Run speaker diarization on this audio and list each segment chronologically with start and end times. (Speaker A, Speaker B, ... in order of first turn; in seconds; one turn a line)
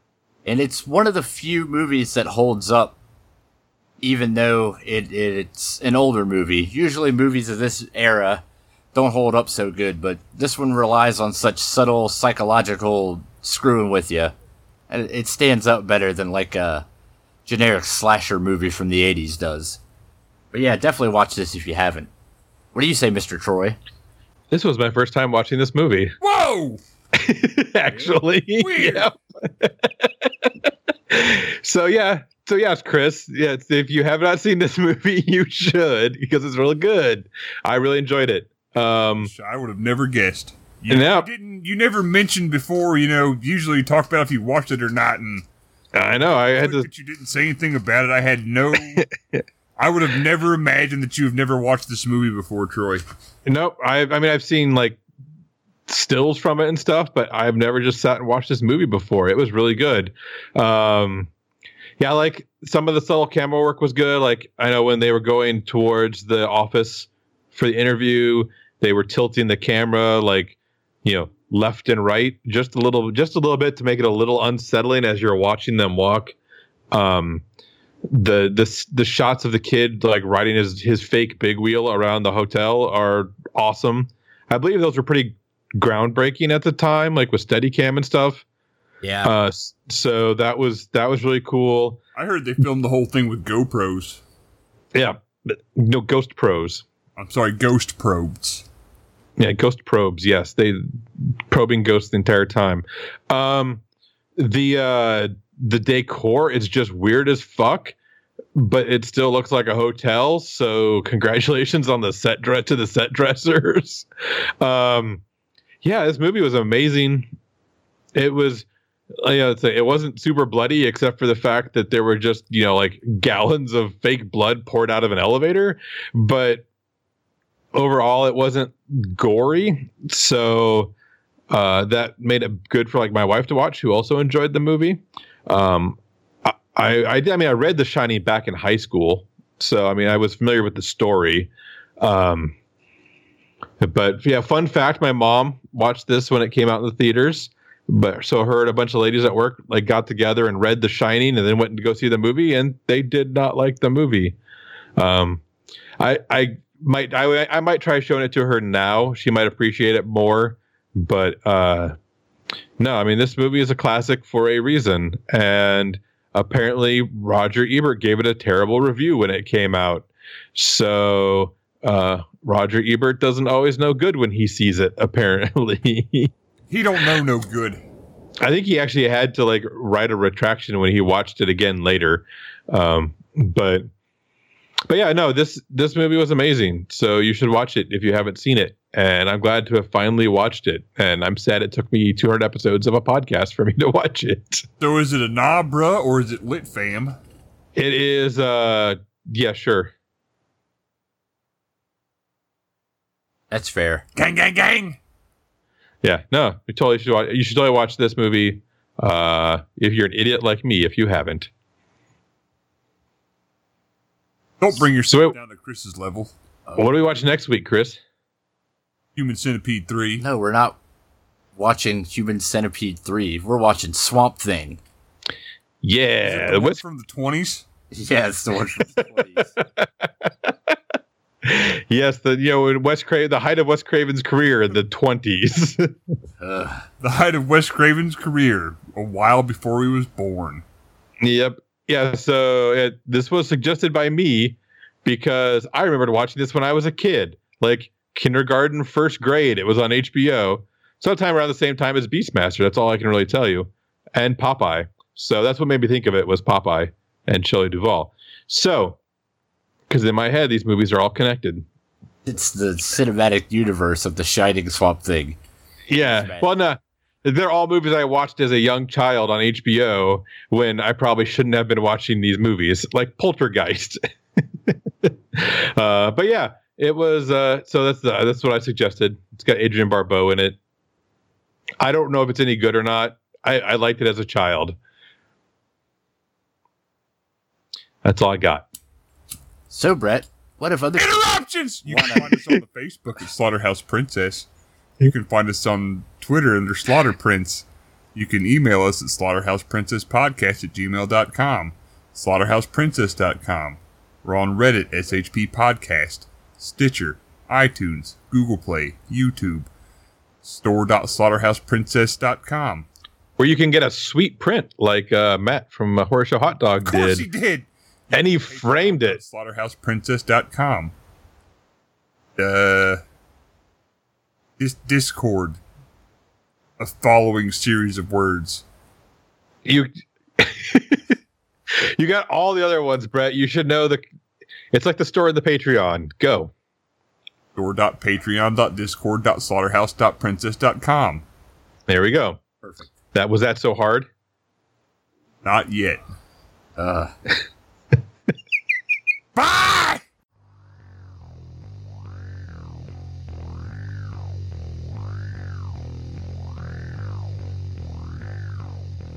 Speaker A: 0.4-3.0
Speaker A: 4.0-8.4
Speaker A: 8.9-14.3
Speaker A: 14.9-16.8
Speaker A: 17.4-19.8
Speaker A: 20.5-22.1
Speaker A: 22.7-23.8
Speaker B: 24.5-26.1
Speaker C: 26.2-26.8
Speaker B: 27.1-39.3
Speaker C: 28.6-29.1
Speaker C: 39.2-45.4
Speaker B: 40.9-41.3
Speaker B: 45.9-46.9
Speaker C: 46.5-49.1
Speaker B: 48.8-49.4
Speaker C: 49.8-53.0
Speaker B: 53.5-55.0
Speaker B: 55.9-61.3
Speaker B: 62.0-76.3
Speaker B: 76.9-77.4
Speaker B: 78.1-88.4
Speaker A: 89.0-89.3
Speaker B: 89.2-92.0
Speaker C: 92.1-94.2
Speaker B: 94.9-96.8
Speaker C: 97.2-98.6
Speaker B: 99.4-103.8
Speaker B: 104.4-107.9
Speaker B: 108.5-114.1
Speaker B: 114.6-115.2
Speaker B: 115.8-117.3
Speaker B: 118.1-126.6
Speaker B: 127.7-130.9
Speaker B: 131.5-142.5
Speaker B: 143.8-154.4
Speaker B: 155.0-155.4
Speaker B: 156.0-161.9
Speaker B: 162.8-176.3
Speaker C: 176.7-177.8
Speaker B: 178.4-183.8
Speaker B: 184.9-194.7
Speaker C: 194.8-197.1
Speaker B: 197.8-199.9
Speaker A: 203.5-204.0
Speaker C: 204.2-205.0
Speaker B: 206.0-211.5
Speaker C: 214.6-216.3
Speaker B: 215.1-215.3
Speaker B: 216.8-218.0
Speaker C: 219.1-220.2
Speaker A: 220.2-220.8
Speaker A: 221.6-224.8
Speaker B: 225.8-226.8
Speaker C: 226.2-227.7
Speaker A: 227.9-229.6
Speaker B: 229.8-230.7
Speaker B: 231.4-235.9
Speaker A: 236.4-236.8
Speaker C: 237.0-240.6
Speaker B: 241.2-259.0
Speaker B: 259.9-261.6
Speaker A: 262.2-265.4
Speaker B: 265.9-274.0
Speaker A: 266.0-266.5
Speaker B: 274.6-280.6
Speaker B: 281.8-284.8
Speaker B: 288.0-288.6
Speaker A: 289.7-291.3
Speaker C: 291.0-294.4
Speaker A: 291.9-292.3
Speaker C: 295.0-309.7
Speaker C: 310.4-312.9
Speaker B: 313.4-317.2
Speaker C: 316.8-320.9
Speaker B: 318.1-319.2
Speaker C: 322.4-323.0
Speaker C: 324.6-325.6
Speaker C: 326.8-328.6
Speaker B: 329.6-331.1
Speaker B: 331.7-334.0
Speaker B: 334.7-336.5
Speaker C: 337.5-341.2
Speaker B: 341.9-342.4
Speaker A: 342.6-342.9
Speaker B: 343.1-344.1
Speaker C: 345.4-346.0
Speaker A: 346.8-347.1
Speaker C: 349.3-350.0